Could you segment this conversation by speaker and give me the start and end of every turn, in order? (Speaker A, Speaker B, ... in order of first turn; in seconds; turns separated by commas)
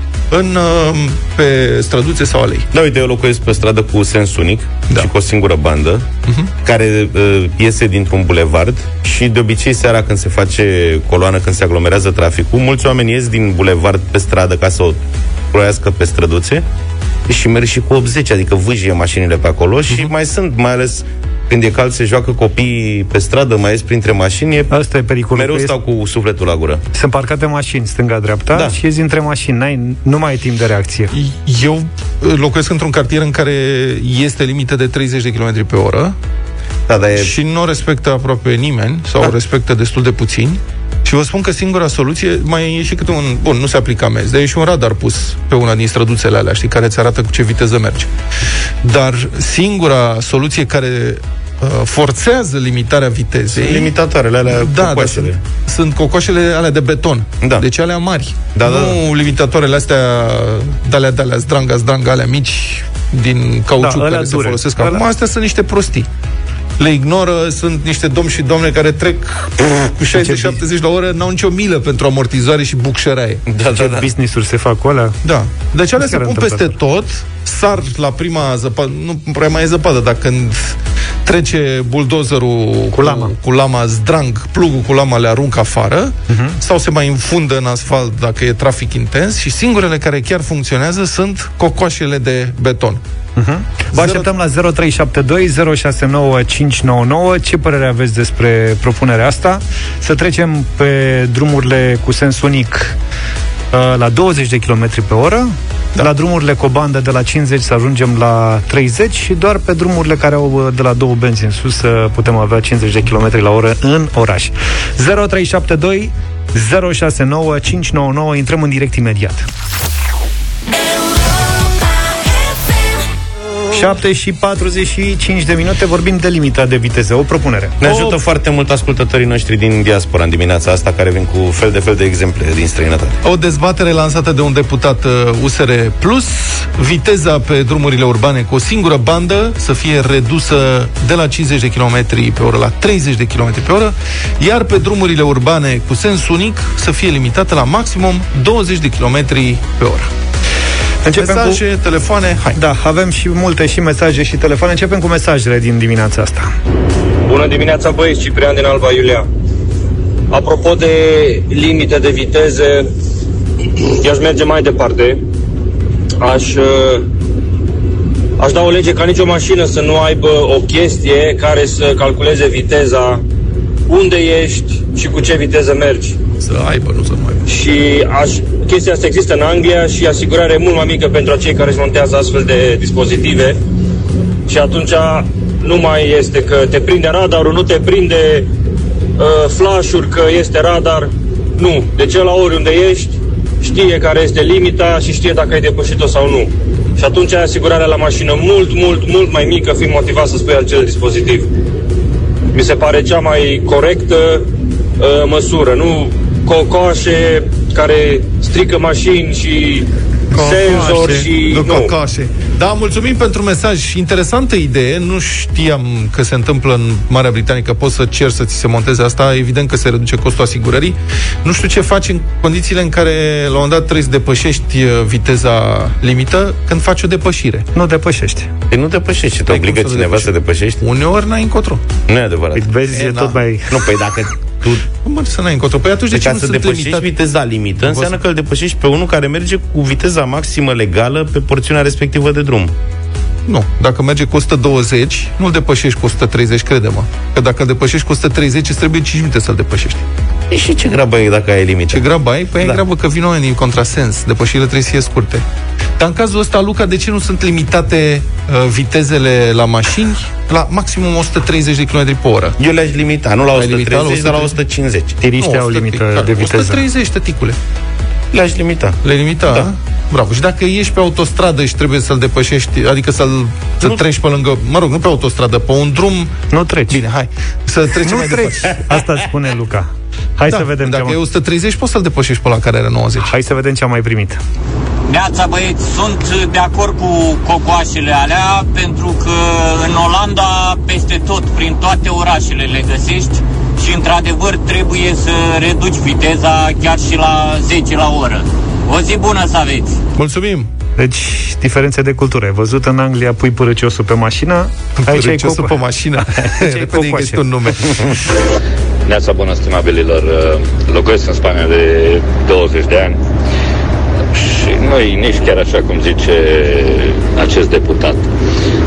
Speaker A: 0.3-2.7, Speaker B: 2.7-6.1, Speaker B: 6.6-16.6, Speaker B: 17.3-24.7, Speaker C: 24.7-25.8, Speaker B: 25.3-26.8, Speaker C: 26.9-31.1, Speaker A: 31.1-36.2, Speaker B: 36.9-37.3, Speaker A: 37.1-48.1, Speaker A: 48.8-53.9, Speaker B: 53.5-55.4, Speaker A: 54.5-66.1, Speaker B: 57.4-57.6, Speaker B: 58.5-59.0, Speaker C: 63.8-65.0, Speaker A: 66.8-73.4, Speaker C: 70.1-70.6, Speaker B: 73.5-74.1, Speaker C: 73.7-75.2, Speaker A: 75.2-93.0, Speaker C: 76.0-76.7, Speaker C: 82.9-83.3, Speaker C: 86.3-86.6, Speaker C: 93.3-103.0, Speaker A: 93.9-94.3, Speaker C: 103.7-119.5, Speaker C: 123.7-127.8, Speaker B: 127.8-133.2, Speaker A: 127.8-128.2, Speaker A: 133.2-150.1, Speaker C: 151.0-151.6, Speaker A: 151.2-152.6, Speaker C: 152.6-156.5, Speaker D: 157.3-159.2, Speaker D: 160.3-162.9, Speaker D: 164.0-165.2, Speaker D: 166.2-167.0, Speaker D: 168.4-173.2, Speaker D: 173.9-176.2, Speaker A: 176.4-177.4, Speaker D: 177.5-183.6, Speaker D: 184.5-188.5, Speaker D: 189.2-201.5, Speaker D: 202.5-204.5, Speaker D: 205.0-211.9, Speaker C: 210.3-211.3, Speaker A: 210.9-227.7, Speaker C: 227.7-228.5, Speaker B: 228.7-230.8, Speaker A: 229.5-231.8, Speaker B: 232.1-232.7, Speaker C: 232.6-233.8, Speaker A: 232.9-233.4, Speaker B: 233.7-234.8, Speaker A: 235.0-237.1, Speaker B: 236.1-242.7, Speaker A: 237.8-238.2, Speaker A: 243.5-250.0, Speaker B: 250.5-252.0, Speaker A: 251.9-255.4, Speaker A: 256.0-262.6, Speaker B: 262.6-265.2, Speaker A: 263.5-264.5, Speaker C: 265.2-266.8, Speaker A: 265.4-267.6, Speaker B: 268.3-269.0, Speaker A: 269.0-276.3, Speaker C: 276.5-277.0, Speaker A: 276.9-278.9, Speaker C: 278.0-281.2, Speaker A: 280.5-283.3, Speaker C: 283.2-284.4, Speaker E: 285.1-300.0, Speaker A: 300.1-300.7, Speaker C: 301.0-305.8, Speaker A: 305.0-308.2, Speaker C: 306.3-307.4, Speaker F: 309.1-313.2, Speaker F: 314.3-318.3